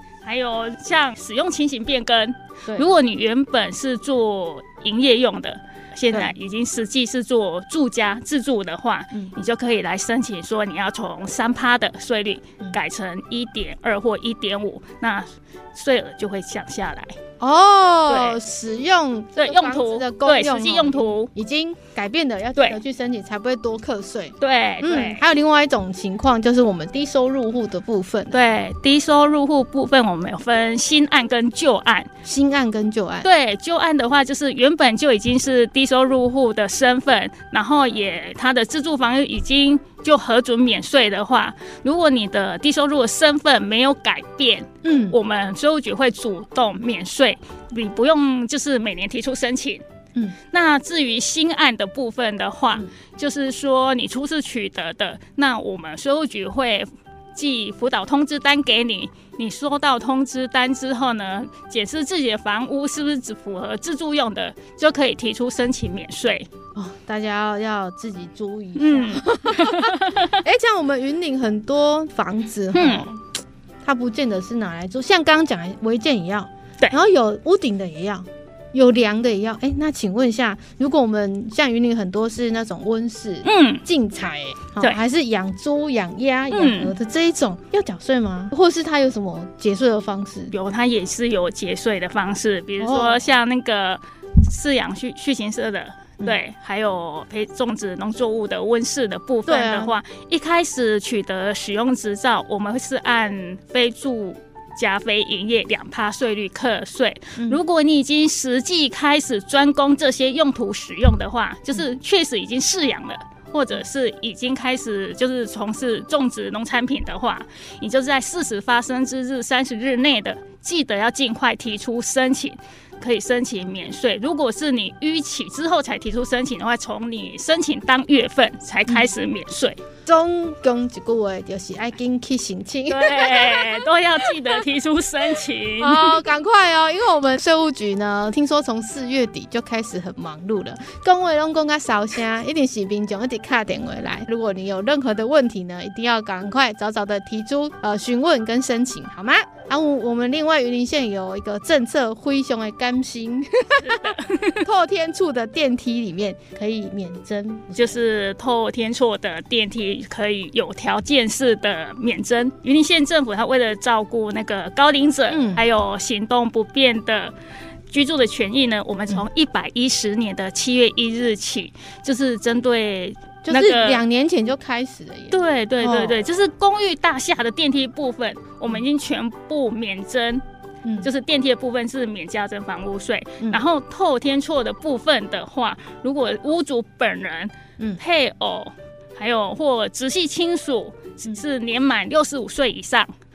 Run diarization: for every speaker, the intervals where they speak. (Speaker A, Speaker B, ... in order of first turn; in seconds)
Speaker A: 0.2-17.2, 18.1-18.4, 19.4-21.3, 24.4-25.2, 28.3-32.1, 33.2-49.8, 50.5-66.5, 68.8-70.4, 72.7-73.1, 83.4-83.8, 86.5-86.9, 90.5-129.8, 132.9-136.2, 153.8-154.6, 157.7-167.3, 167.9-174.0, 175.3-180.4, 181.0-193.1
Speaker B: 17.4-28.4, 32.2-33.3, 44.8-45.2, 66.7-73.2, 73.8-90.5, 92.8-93.3, 99.5-100.0, 130.1-134.5, 135.8-157.9, 165.3-165.6, 173.4-176.2, 180.8-181.1